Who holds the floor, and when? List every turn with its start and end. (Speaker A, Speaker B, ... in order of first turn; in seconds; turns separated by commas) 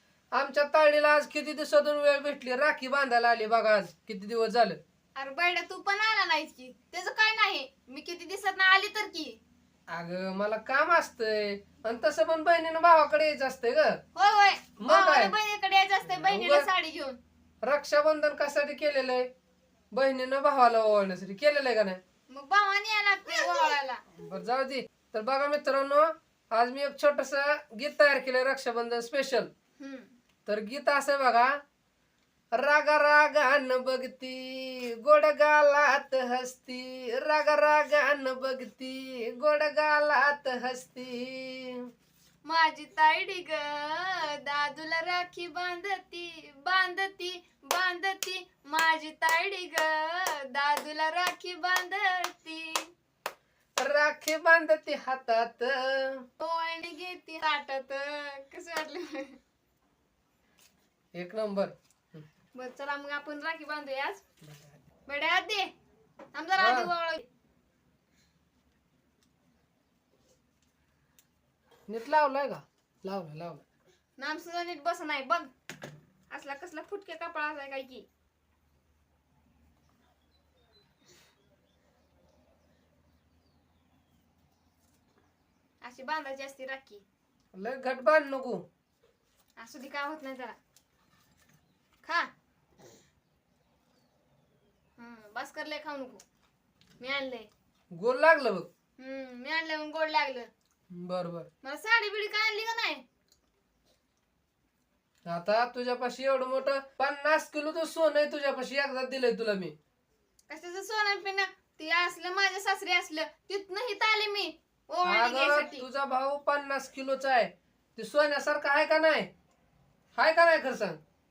Speaker A: 0.3-4.8, Speaker B: 5.2-9.4, Speaker A: 9.9-14.0, Speaker B: 14.1-17.2, Speaker A: 14.8-15.3, Speaker A: 16.1-16.7, Speaker A: 17.6-19.3, Speaker A: 19.9-22.0, Speaker B: 22.3-24.0, Speaker A: 24.1-29.5, Speaker B: 29.8-30.1, Speaker A: 30.5-31.5, Speaker A: 32.5-41.8, Speaker B: 42.4-52.9, Speaker A: 53.8-56.2, Speaker B: 56.4-59.4, Speaker A: 61.1-62.2, Speaker B: 62.5-64.2, Speaker A: 64.5-64.8, Speaker B: 65.0-65.7, Speaker B: 66.3-67.3, Speaker A: 66.6-66.9, Speaker A: 71.9-73.6, Speaker B: 74.2-75.5, Speaker B: 76.3-78.1, Speaker B: 85.8-87.0, Speaker A: 87.5-88.6, Speaker B: 89.6-90.6, Speaker B: 92.0-92.3, Speaker B: 95.0-96.2, Speaker B: 97.0-97.5, Speaker A: 97.9-98.7, Speaker B: 99.0-100.5, Speaker A: 100.9-101.5, Speaker B: 101.6-103.0, Speaker A: 105.2-109.7, Speaker B: 110.5-115.9, Speaker A: 115.0-119.3, Speaker A: 120.1-121.0